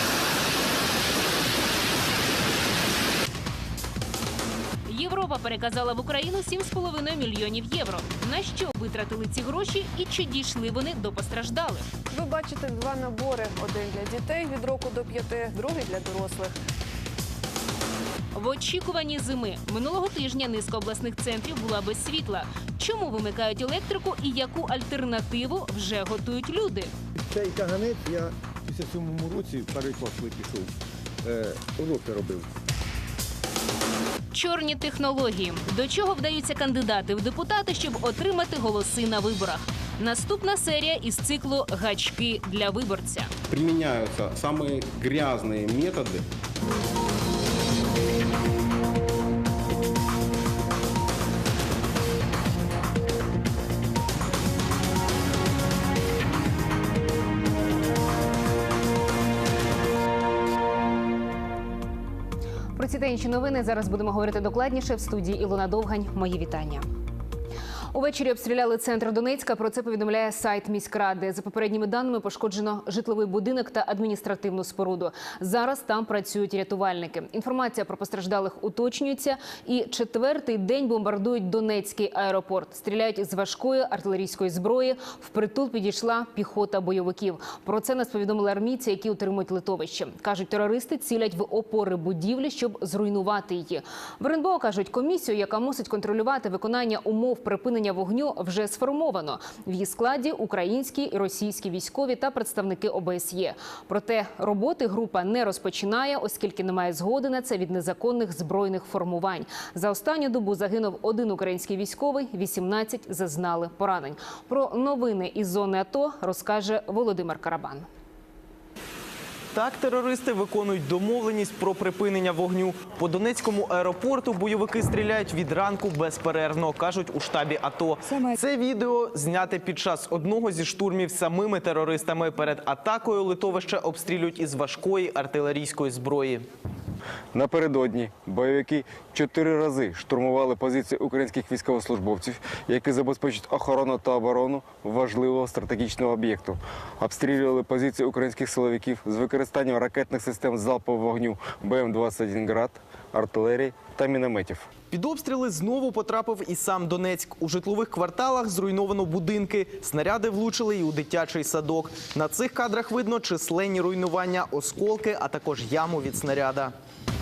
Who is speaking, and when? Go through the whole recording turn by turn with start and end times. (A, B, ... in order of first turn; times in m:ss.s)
0:04.8-0:11.9 A
0:12.1-0:16.5 B
0:18.3-0:26.9 A
0:27.3-0:30.7 C
0:31.2-0:32.5 C
0:34.3-0:43.3 A
0:43.5-0:46.2 D
1:02.8-1:06.8 A
1:07.9-1:57.9 A
1:59.5-2:16.5 E
2:17.3-2:34.7 F
2:34.9-2:46.7 E